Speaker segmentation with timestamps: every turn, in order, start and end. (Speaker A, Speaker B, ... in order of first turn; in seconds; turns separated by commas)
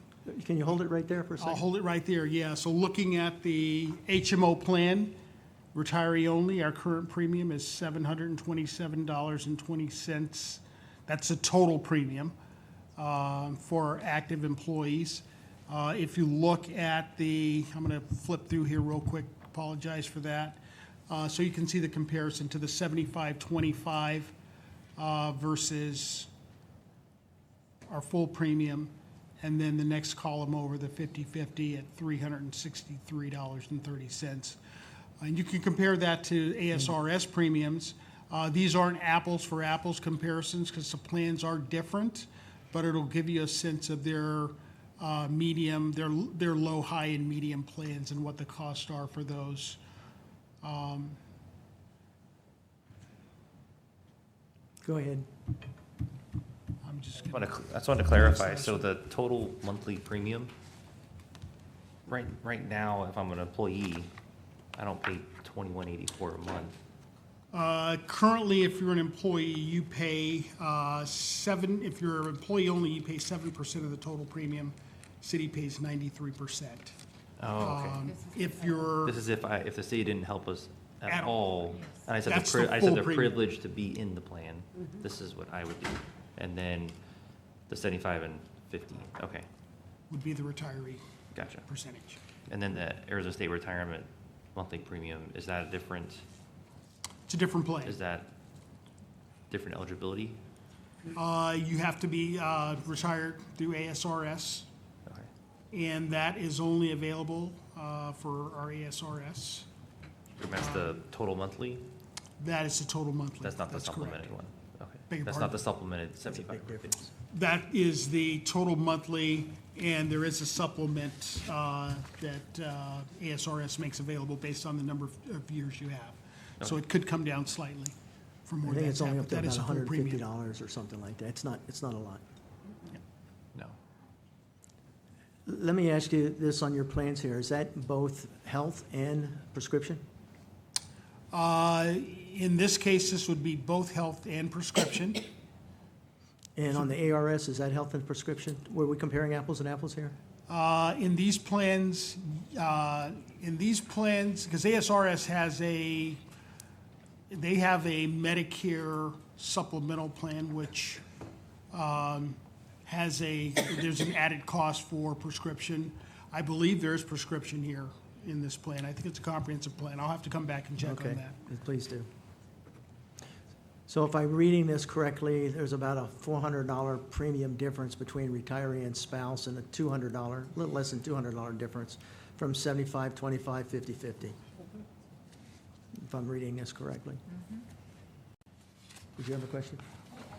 Speaker A: 0.2-1.6, Speaker B: 1.4-5.1, Speaker B: 5.7-12.3, Speaker B: 13.0-24.3, Speaker B: 25.0-26.3, Speaker B: 27.9-34.6, Speaker B: 35.2-49.8, Speaker B: 50.6-51.2, Speaker A: 54.8-55.2, Speaker B: 56.8-58.9, Speaker C: 57.3-60.5, Speaker C: 62.1-64.1, Speaker C: 64.8-66.7, Speaker B: 67.5-76.9, Speaker C: 77.4-78.0, Speaker B: 77.6-79.2, Speaker C: 79.0-86.9, Speaker B: 81.1-81.4, Speaker B: 82.2-83.4, Speaker C: 87.7-89.5, Speaker B: 90.1-91.0, Speaker C: 91.3-91.6, Speaker B: 91.6-92.2, Speaker C: 92.5-96.2, Speaker B: 97.3-98.0, Speaker C: 97.8-98.3, Speaker C: 99.5-100.4, Speaker B: 101.1-104.7, Speaker B: 105.7-109.7, Speaker C: 110.4-111.9, Speaker B: 110.5-111.0, Speaker B: 112.4-114.3, Speaker C: 113.4-117.1, Speaker B: 115.1-115.6, Speaker A: 116.3-116.9, Speaker B: 117.3-127.9, Speaker B: 128.4-130.2, Speaker A: 128.6-132.2, Speaker A: 135.4-140.0, Speaker B: 141.3-145.2, Speaker A: 146.6-150.2, Speaker B: 150.5-156.2, Speaker B: 157.3-161.0, Speaker B: 161.7-171.3, Speaker A: 170.8-172.1, Speaker A: 173.9-184.3, Speaker A: 185.9-187.2, Speaker A: 189.2-189.8